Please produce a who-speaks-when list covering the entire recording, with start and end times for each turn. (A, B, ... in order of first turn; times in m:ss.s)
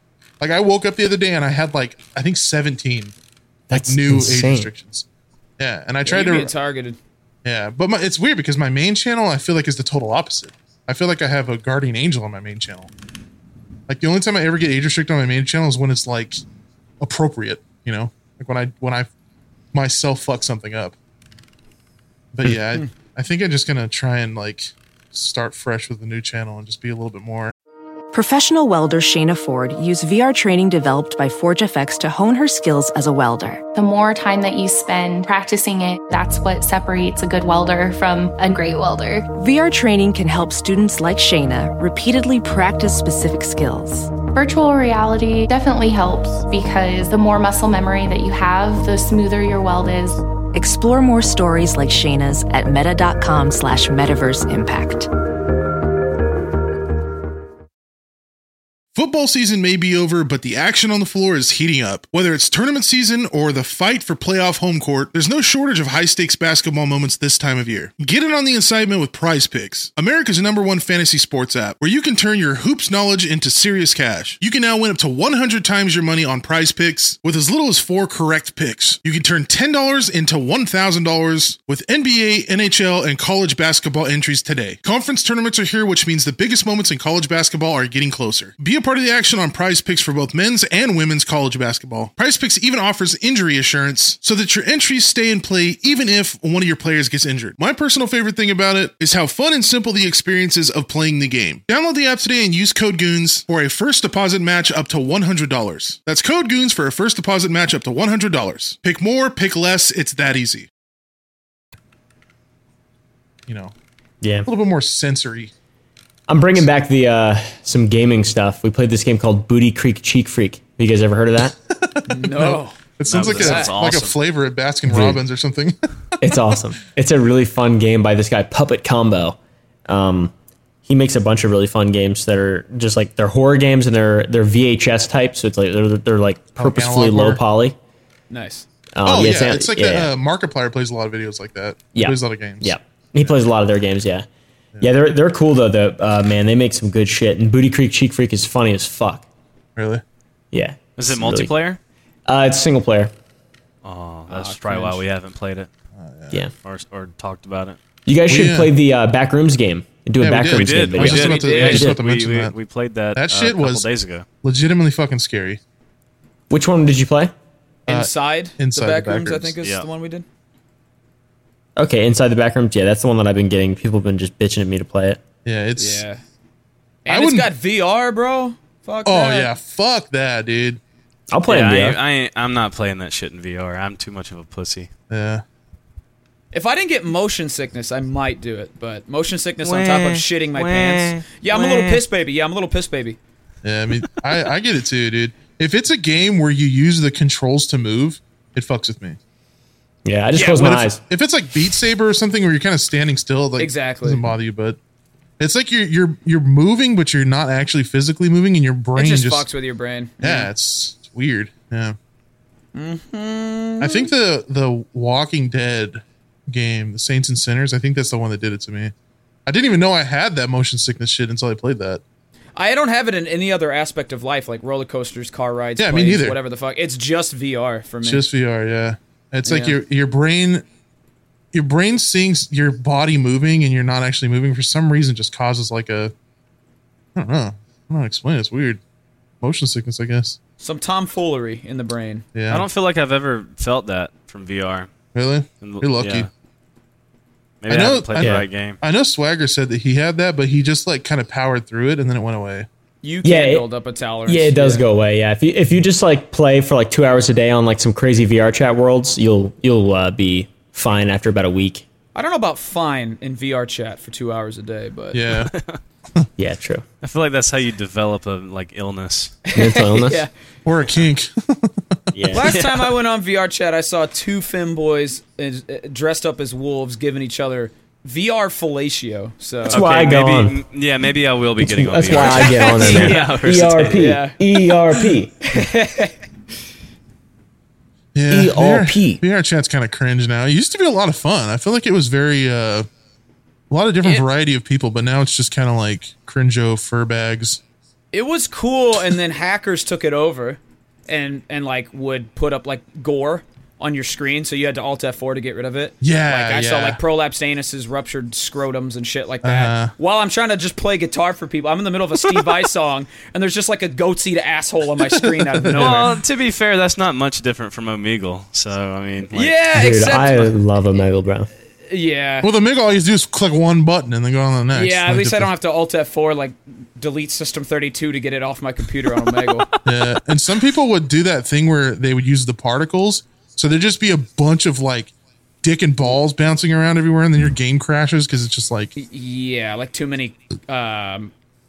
0:00.4-0:03.1 A
0:03.7-0:04.7 B
0:03.7-0:05.0 A
0:05.6-0:06.5 A
0:06.0-0:07.0 C
0:07.4-0:12.9 A
0:13.9-0:16.4 A
0:17.0-0:19.1 A
0:19.7-0:20.9 A
0:22.3-0:27.5 A
0:28.1-0:33.6 D
0:33.7-0:39.3 E
0:39.3-0:44.2 D
0:44.3-0:50.2 E
0:50.5-0:55.1 D
0:58.9-1:50.7 A
1:53.5-1:53.7 A
1:54.2-1:54.5 B
1:54.4-1:55.5 A
1:56.3-2:01.6 B
2:01.8-2:05.8 A
2:02.1-2:03.8 C
2:03.1-2:04.2 F
2:04.9-2:05.2 B
2:06.2-2:10.3 B
2:10.8-2:17.8 B
2:16.6-2:17.4 A
2:18.3-2:18.6 C
2:19.0-2:20.1 B
2:19.0-2:23.3 A
2:21.9-2:24.2 B
2:24.8-2:29.2 B
2:29.8-2:30.0 A
2:30.5-2:31.5 B
2:31.0-2:31.8 F
2:32.3-2:33.1 B
2:33.8-2:35.7 F
2:34.3-2:35.0 C
2:35.9-2:36.4 A
2:36.6-2:37.8 F
2:38.0-2:42.0 B
2:38.3-2:38.7 A
2:40.2-2:42.5 A
2:40.5-2:44.2 F
2:41.4-2:41.8 C
2:43.1-2:43.9 A
2:44.4-2:45.6 A
2:46.5-2:47.3 B
2:47.9-2:50.2 C
2:47.9-2:49.5 A
2:51.8-2:55.2 B
2:55.4-2:56.0 A
2:55.8-2:56.2 C
2:57.0-2:59.5 C
2:57.1-2:57.5 A
2:59.0-3:00.8 A
3:01.3-3:02.0 B
3:01.5-3:04.9 F
3:05.1-3:05.4 A
3:06.5-3:13.2 C
3:09.6-3:12.0 F
3:13.6-3:19.2 A
3:20.0-3:21.0 B
3:20.3-3:20.6 C
3:20.5-3:24.8 A
3:23.6-3:24.2 C
3:25.4-3:29.4 A
3:28.9-3:30.5 C
3:30.2-3:32.0 A
3:32.7-3:34.1 C
3:33.8-3:38.9 A
3:39.4-3:42.0 A
3:42.6-3:48.2 C
3:45.8-3:46.4 A
3:48.0-3:50.6 A
3:49.4-3:49.8 C
3:51.5-3:56.1 A
3:57.2-3:58.8 A
3:59.4-4:00.4 A
4:00.6-4:02.2 C
4:02.3-4:02.6 A
4:02.5-4:04.9 F
4:05.1-4:06.3 A
4:05.6-4:06.3 F
4:07.6-4:08.8 F
4:07.7-4:12.7 A
4:08.2-4:08.4 B
4:13.0-4:14.8 C
4:13.2-4:13.7 B
4:14.3-4:21.8 B
4:22.1-4:25.2 C
4:25.1-4:25.5 A
4:25.5-4:25.8 F
4:26.4-4:26.8 B
4:27.0-4:29.4 F
4:29.5-4:30.3 C
4:29.5-4:30.2 B
4:30.6-4:31.9 A
4:32.1-4:32.5 B
4:32.3-4:39.8 C
4:32.4-4:32.9 F
4:39.7-4:40.6 B
4:39.7-4:44.1 F
4:41.6-4:45.4 B
4:42.4-4:46.1 C
4:48.1-4:52.9 A
4:48.3-4:49.2 B
4:53.7-4:57.6 A
4:58.1-5:16.2 C
5:06.0-5:07.0 A
5:09.4-5:09.9 A
5:15.1-5:16.1 A
5:15.8-5:19.6 F
5:19.3-5:20.5 C
5:19.7-5:21.5 B
5:21.9-5:22.5 C
5:22.4-5:25.5 A
5:24.7-5:29.7 C
5:29.8-5:35.1 A
5:35.6-5:38.9 A
5:39.0-5:41.3 C